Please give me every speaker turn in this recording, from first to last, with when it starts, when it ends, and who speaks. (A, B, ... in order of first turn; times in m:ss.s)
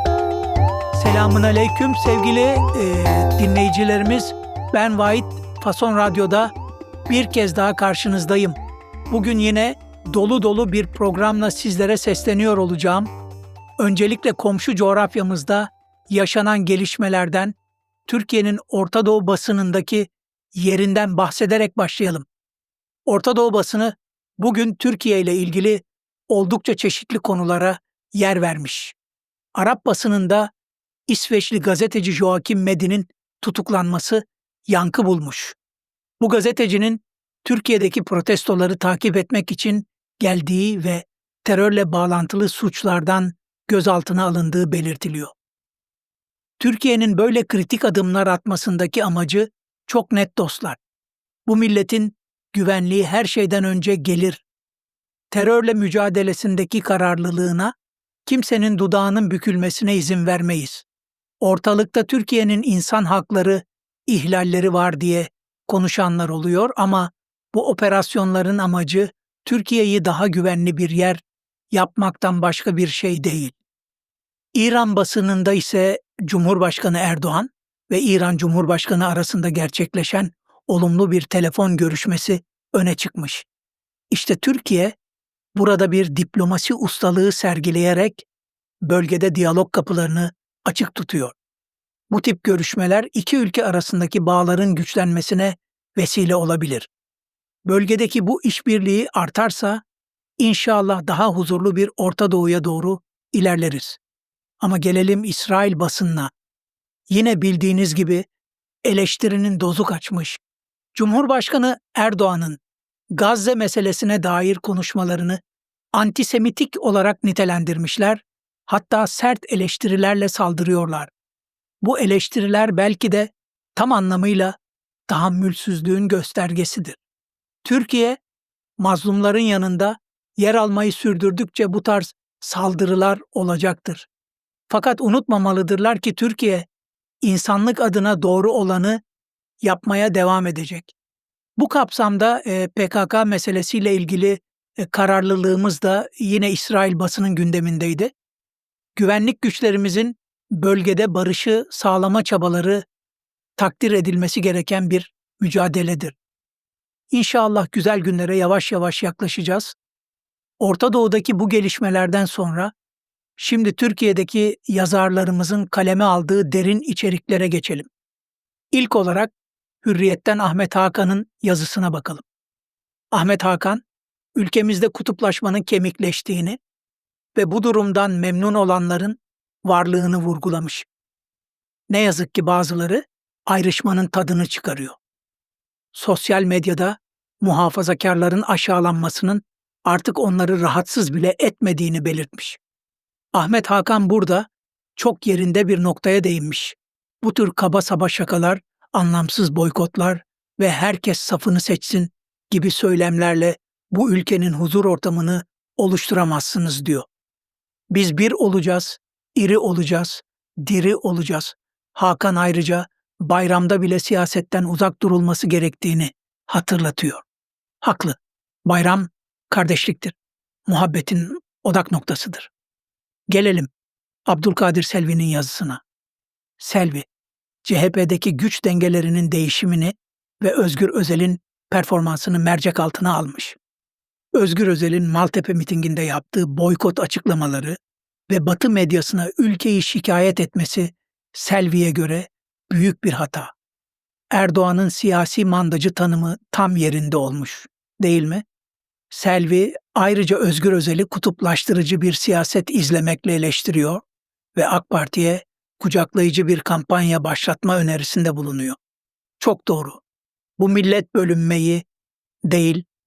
0:00.9-0:06.5 A
0:07.1-0:08.6 A
0:09.1-0:13.1 A
0:13.8-0:17.5 A
0:18.0-0:22.3 A
0:23.0-0:29.0 A
0:29.5-0:30.5 A
0:31.1-0:35.6 A
0:36.2-0:45.3 A
0:46.6-0:50.8 A
0:51.4-0:54.4 A
0:55.3-0:57.7 A
0:58.2-1:00.8 A
1:01.4-1:13.5 A
1:14.5-1:23.5 A
1:24.1-1:25.0 A
1:25.5-1:28.2 A
1:28.8-1:31.4 A
1:32.1-1:36.9 A
1:37.6-1:39.8 A
1:40.4-1:44.0 A
1:44.6-1:46.3 A
1:47.1-1:48.3 A
1:48.8-1:50.4 A
1:50.9-1:52.6 A
1:53.1-1:55.4 A
1:55.9-2:01.1 A
2:01.8-2:04.6 A
2:05.1-2:07.0 A
2:07.6-2:08.2 A
2:08.8-2:14.1 A
2:14.7-2:16.7 A
2:17.2-2:19.0 A
2:19.6-2:20.9 A
2:21.6-2:28.1 A
2:29.0-2:32.8 A
2:33.6-2:36.2 A
2:37.1-2:39.8 A
2:40.6-2:42.7 A
2:43.4-2:47.9 A
2:48.7-2:49.3 A
2:49.8-2:52.2 A
2:53.1-2:53.8 A
2:54.3-2:56.6 A
2:57.3-3:00.9 A
3:01.9-3:05.0 A
3:05.9-3:12.6 A
3:13.3-3:27.1 A
3:27.9-3:37.2 A
3:37.8-3:40.2 A
3:40.7-3:42.5 A
3:43.3-3:43.7 A
3:44.3-3:45.8 A
3:46.6-3:47.1 A
3:47.6-3:53.6 A
3:54.3-4:03.5 A
4:04.3-4:08.4 A
4:09.1-4:14.0 A
4:14.5-4:18.8 A
4:19.4-4:20.0 A
4:20.6-4:21.8 A
4:22.5-4:22.8 A